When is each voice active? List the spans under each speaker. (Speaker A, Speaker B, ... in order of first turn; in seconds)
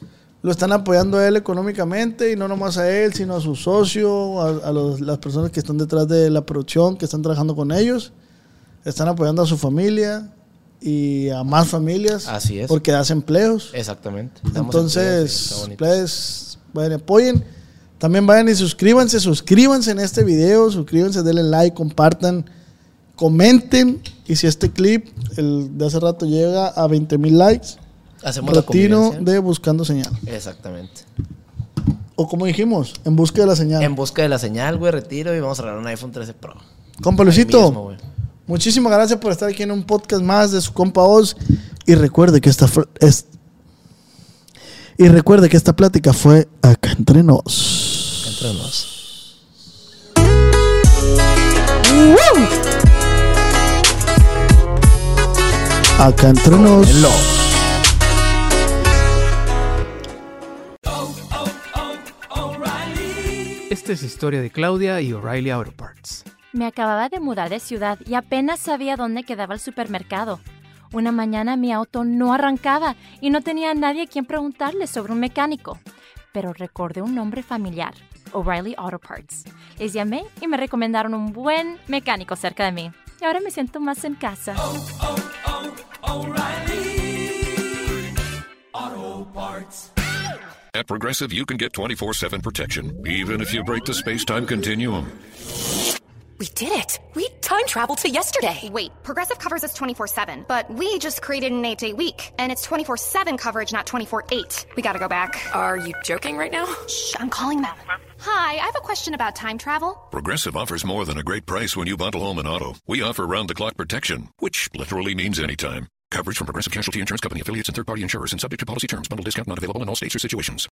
Speaker A: 0.4-8.1, 8.8-13.7, 14.5-17.4, 18.0-22.5, 23.2-27.8, 28.4-30.2, 32.1-33.9, 37.0-37.8, 38.5-43.3, 45.0-48.2, 56.0-57.0
Speaker B: 12.2-12.8, 13.7-15.8, 28.2-29.3, 30.2-31.0, 33.8-36.6, 37.2-38.0, 48.2-48.9, 56.5-57.3
Speaker C: 63.7-66.2
Speaker D: 66.5-75.8, 76.3-84.7
Speaker E: 90.7-95.1, 110.1-120.7
Speaker F: 96.4-98.7, 105.6-106.7
Speaker G: 98.6-105.6, 106.9-110.0